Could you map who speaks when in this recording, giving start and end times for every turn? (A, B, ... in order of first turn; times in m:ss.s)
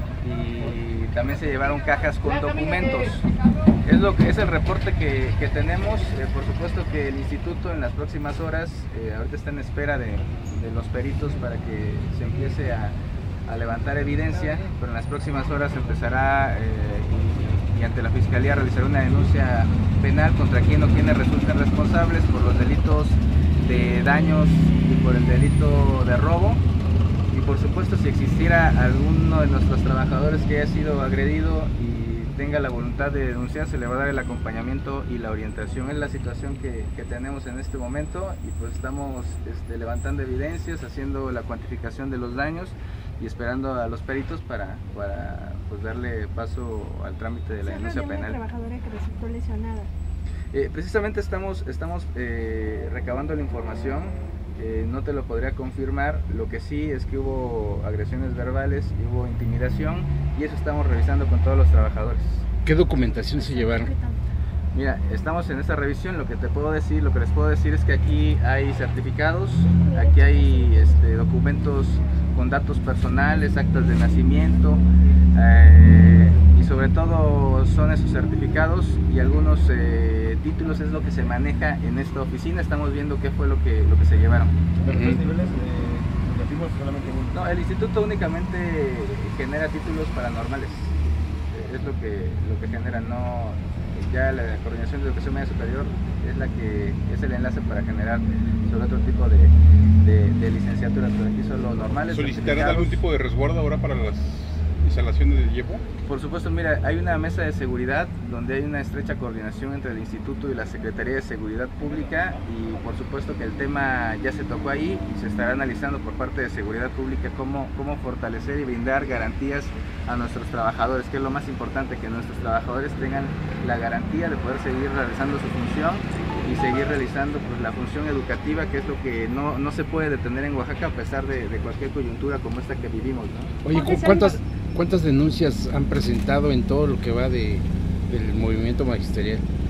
0:00.2-0:03.3 A
0:03.8-0:13.0 A
0:13.5-0:26.6 A
0:27.3-0:48.4 A
0:47.6-0:49.9 B
0:50.5-1:02.5 A
1:02.6-1:03.9 C
1:03.4-1:04.2 B
1:04.7-1:14.8 A
1:09.9-1:10.9 B
1:15.3-1:24.5 A
1:24.8-1:27.4 D
1:24.9-1:25.2 C
1:27.3-1:31.0 A
1:31.5-1:43.0 A
1:42.1-1:45.8 E
1:46.0-2:13.6 A
2:13.6-2:19.4 C
2:13.7-2:14.4 B